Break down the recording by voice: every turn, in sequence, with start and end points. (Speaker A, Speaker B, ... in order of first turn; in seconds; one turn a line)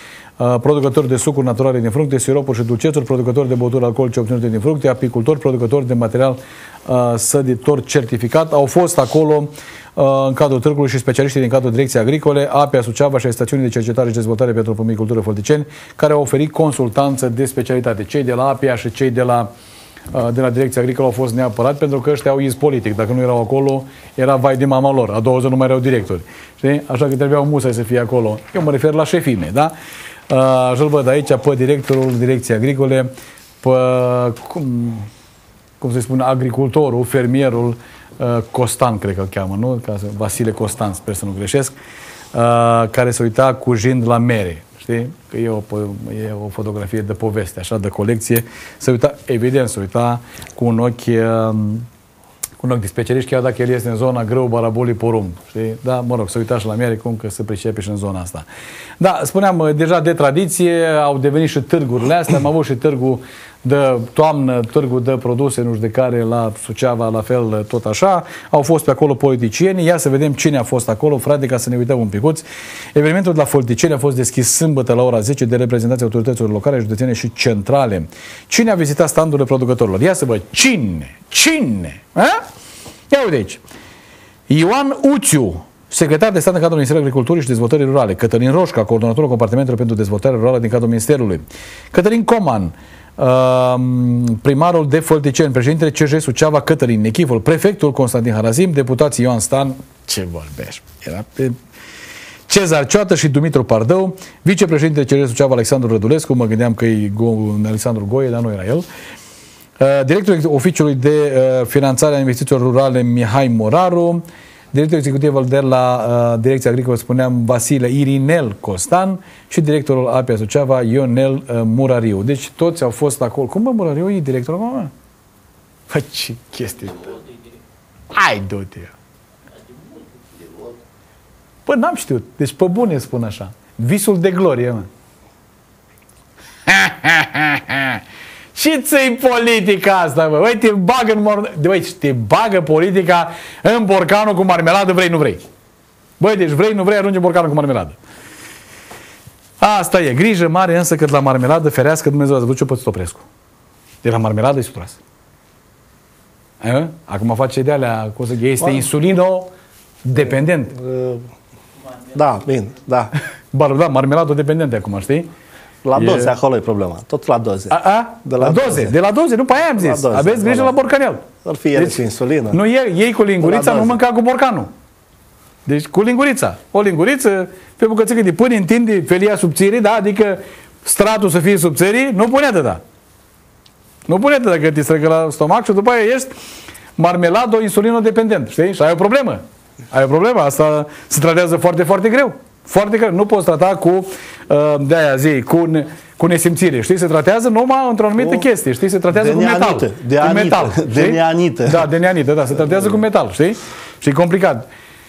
Speaker A: 0.4-19.5
Speaker A: 20.1-29.7
Speaker A: 30.3-33.1
Speaker A: 33.6-35.1
Speaker A: 35.8-41.7
Speaker A: 42.3-51.9
Speaker A: 52.6-58.5
Speaker A: 59.0-82.4
Speaker A: 83.1-83.6
Speaker A: 84.5-101.6
Speaker A: 102.5-108.8
Speaker A: 109.8-124.9
Speaker A: 125.9-127.2
Speaker A: 128.1-128.9
Speaker A: 131.7-134.9
Speaker A: 136.7-138.0
Speaker A: 138.5-145.4
Speaker A: 146.2-148.0
Speaker A: 149.6-153.2
Speaker A: 154.0-155.0
Speaker A: 156.6-159.5
Speaker A: 160.0-160.8
Speaker B: 160.7-161.2
Speaker B: 162.1-163.1
Speaker A: 163.5-165.3
Speaker B: 165.8-168.9
Speaker A: 165.9-166.3
Speaker A: 167.7-172.0
Speaker B: 169.8-170.7
Speaker B: 171.4-172.6
Speaker A: 172.5-174.7
Speaker B: 173.4-174.0
Speaker A: 175.7-182.8
Speaker A: 184.1-186.3
Speaker A: 187.0-189.4
Speaker A: 189.9-204.7
Speaker B: 198.2-198.4
Speaker B: 199.1-201.9